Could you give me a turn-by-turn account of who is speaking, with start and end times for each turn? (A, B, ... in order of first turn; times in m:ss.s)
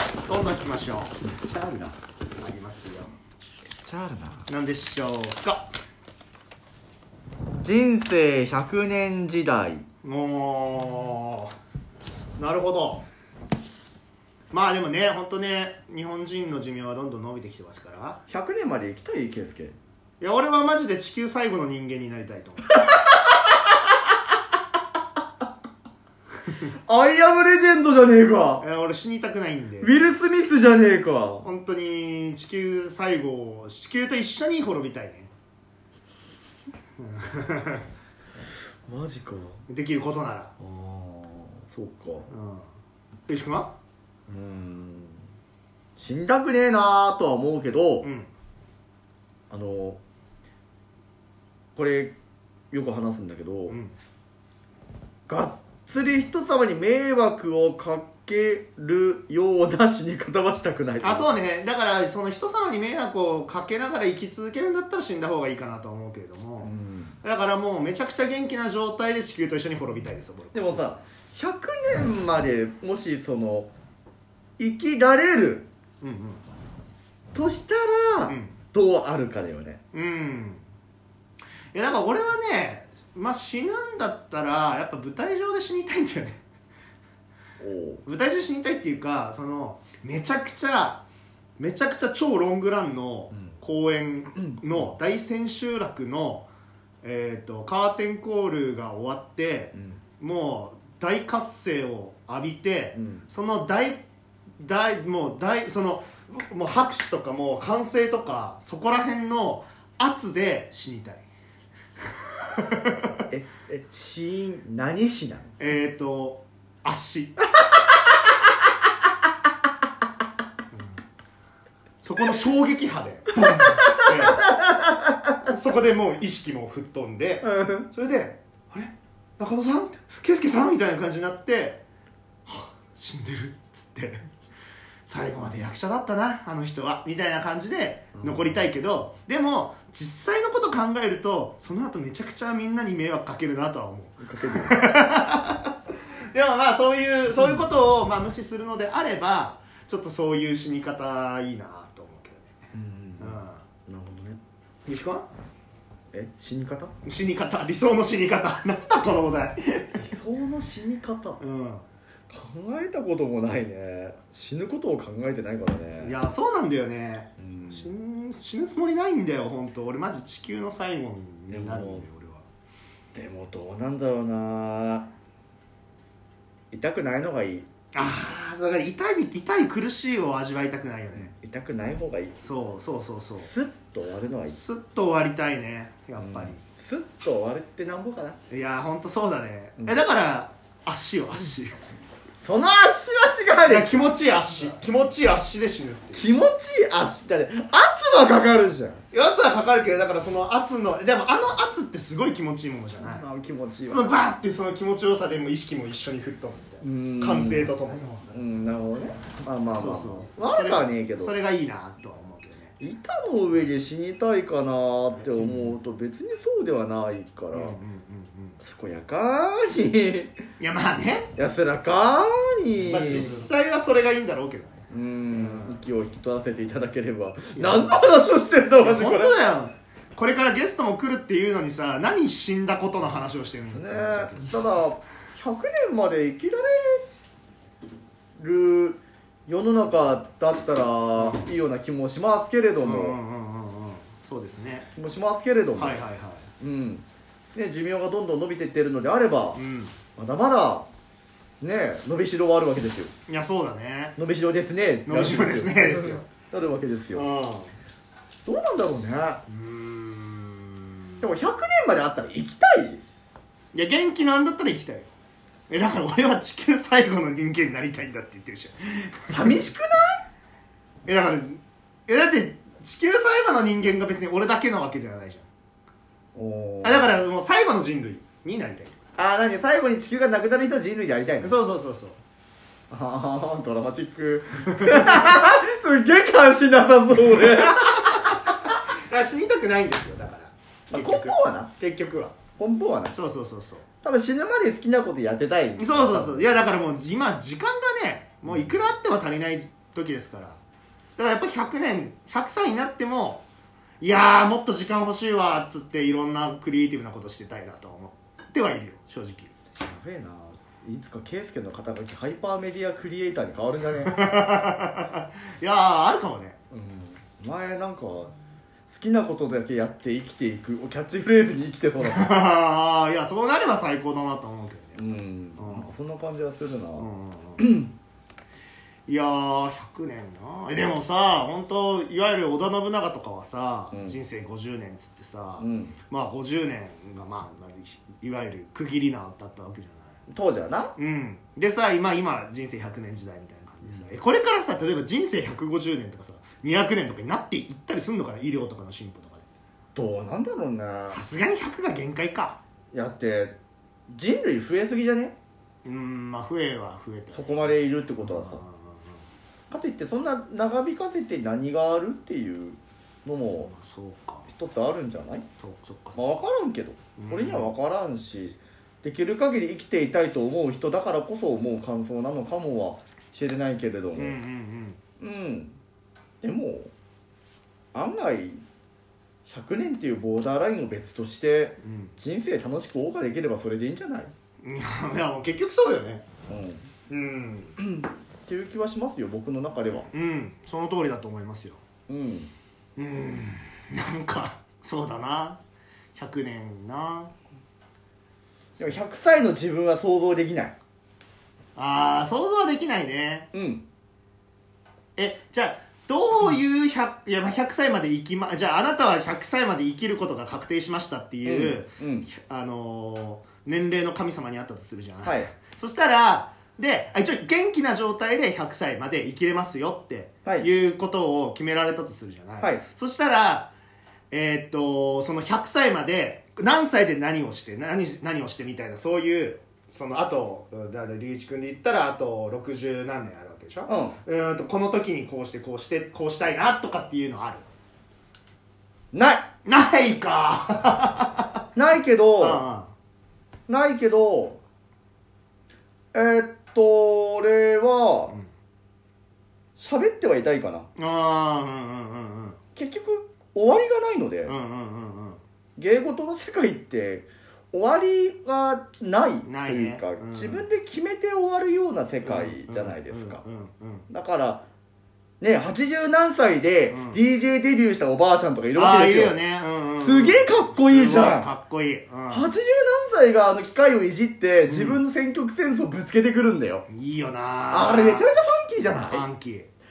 0:00.3-0:03.1 A
0:03.8-0:04.5 B
0:04.5-0:05.7 A
0:07.6-0:09.9 B
0:10.0-0:11.5 A
0:12.4-0:13.0 A
0:14.5-0:18.2 A
0:18.3-0:19.8 B
0:20.2-0:22.8 A
0:22.9-0:23.7 B
0:26.8-0:28.6 B
0:28.6-0:30.0 A
0:29.8-0:31.5 B
0:31.4-0:35.3 A
0:37.0-0:37.8 A
0:38.9-0:39.6 B
0:39.7-0:40.6 A
0:40.6-0:42.3 B
0:42.3-0:42.7 A
0:43.3-0:43.7 A
0:44.3-0:45.2 B
0:46.0-0:48.1 B
0:48.0-0:48.3 A
0:49.5-0:50.0 B
0:51.7-0:52.2 B
0:52.7-0:53.8 B
0:53.7-0:53.9 A
0:55.3-1:01.3 B
1:01.0-1:10.9 A
1:06.6-1:07.2 B
1:10.5-1:13.7 B
1:14.6-1:15.7 B
1:16.0-1:16.4 A
1:17.3-1:19.8 B
1:18.3-1:18.5 A
1:19.9-1:20.6 A
1:21.7-1:26.4 A
1:27.6-1:28.0 B
1:28.0-1:31.0 A
1:31.6-1:36.5 A
1:34.4-1:34.8 B
1:37.0-1:44.0 A
1:39.7-1:40.0 B
1:43.0-1:43.2 B
1:44.6-1:51.2 A
1:52.3-1:53.2 A
1:53.3-1:55.5 B
1:55.6-1:57.4 A
2:02.0-2:04.5 A
2:03.6-2:05.5 B
2:05.4-2:11.8 A
2:07.4-2:07.9 B
2:12.5-2:14.3 A
2:15.1-2:25.8 A
2:18.2-2:18.6 B
2:24.2-2:24.9 B
2:26.3-2:32.6 A
2:32.7-2:34.4 B
2:33.2-2:33.6 A
2:34.9-2:35.2 A
2:36.1-2:36.9 B
2:37.0-2:40.0 A
2:39.9-2:41.4 B
2:41.4-2:41.8 A
2:42.3-2:46.2 B
2:46.0-2:52.5 A
2:47.4-2:47.9 B
2:51.5-2:52.1 B
2:53.1-2:55.1 B
2:56.7-2:57.7 B
2:57.9-3:01.3 A
3:01.2-3:02.4 B
3:02.4-3:03.5 A
3:03.4-3:04.6 B
3:04.5-3:06.6 A
3:06.2-3:08.4 B
3:08.5-3:11.8 A
3:12.4-3:14.0 B
3:13.7-3:16.3 A
3:16.2-3:19.0 B
3:19.1-3:23.2 A
3:23.0-3:24.2 B
3:23.9-3:28.4 A
3:26.8-3:27.8 B
3:28.3-3:31.3 B
3:29.7-3:32.7 A
3:32.8-3:37.8 B
3:35.4-3:35.7 A
3:37.5-3:38.6 A
3:38.6-3:40.4 B
3:40.6-3:41.3 A
3:41.4-3:43.5 B
3:42.8-3:45.8 A
3:44.9-3:49.4 B
3:47.6-3:48.0 A
3:48.8-3:54.7 A
3:53.7-3:57.1 B
3:58.4-4:03.2 B
4:01.2-4:01.4 A
4:02.8-4:04.9 A
4:04.9-4:06.0 B
4:05.8-4:06.5 A
4:06.6-4:09.6 B
4:09.5-4:10.0 A
4:10.2-4:10.9 B
4:11.6-4:13.1 B
4:13.3-4:14.2 A
4:14.2-4:17.3 B
4:15.1-4:16.2 A
4:17.1-4:17.7 A
4:18.4-4:19.4 B
4:19.5-4:21.3 A
4:21.2-4:23.0 B
4:23.7-4:25.1 A
4:25.7-4:29.6 A
4:29.3-4:30.2 B
4:31.1-4:35.5 A
4:36.3-4:37.2 B
4:36.8-4:39.0 A
4:39.2-4:41.6 B
4:41.4-4:42.2 A
4:42.9-4:48.4 B
4:44.7-4:45.4 A
4:47.6-4:52.4 A
4:50.9-4:51.7 B
4:52.6-4:53.2 B
4:53.1-4:53.8 A
4:54.0-4:56.4 B
4:55.8-5:00.6 A
4:58.5-4:58.8 B
5:01.2-5:03.4 A
5:04.0-5:09.5 A
5:09.8-5:14.4 B
5:14.1-5:16.6 A
5:16.7-5:18.3 B
5:18.9-5:22.3 B
5:22.0-5:25.9 A
5:25.0-5:27.9 B
5:27.0-5:27.8 A
5:29.1-5:40.1 A
5:33.9-5:34.2 B
5:35.6-5:36.0 B
5:40.3-5:40.9 B
5:41.0-5:49.4 A
5:49.9-5:51.2 B
5:51.1-5:52.6 A
5:52.9-5:53.6 B
5:54.1-5:55.3 B
5:55.8-5:59.0 A
5:57.3-5:58.6 B
5:59.7-6:03.7 B
6:03.6-6:04.5 A
6:04.5-6:05.5 B
6:05.6-6:06.2 A
6:06.1-6:14.4 B
6:07.2-6:07.7 A
6:14.1-6:15.0 A
6:15.2-6:15.8 B
6:16.4-6:16.9 B
6:17.9-6:18.6 B
6:19.4-6:24.3 B
6:21.8-6:22.1 A
6:24.6-6:26.2 A
6:26.5-6:26.8 B
6:27.1-6:27.8 A
6:27.8-6:30.1 B
6:30.1-6:31.8 A
6:32.1-6:32.5 B
6:33.0-6:35.6 A
6:36.1-6:37.3 A
6:38.8-6:40.8 B
6:41.8-6:43.5 A
6:43.5-6:43.8 B
6:45.2-7:03.7 A
6:51.4-6:52.3 B
6:55.2-6:55.5 B
7:04.3-7:17.6 A
7:13.9-7:14.2 B
7:19.1-7:19.5 B
7:19.6-7:21.6 A
7:21.8-7:22.6 B
7:22.4-7:22.9 A
7:23.7-7:24.6 B
7:26.1-7:28.4 B
7:29.8-7:30.9 B
7:31.0-7:32.6 A
7:32.8-7:34.6 B
7:34.4-7:35.4 A
7:35.8-7:43.4 B
7:39.4-7:40.6 A
7:42.2-7:44.1 A
7:44.1-7:44.6 B
7:45.4-7:49.4 B
7:46.9-7:47.2 A
7:48.8-7:52.5 A
7:50.0-7:51.5 B
7:52.3-7:56.9 B
7:54.7-7:55.0 A
7:56.9-7:58.3 A
7:57.7-7:59.2 B
7:58.9-7:59.7 A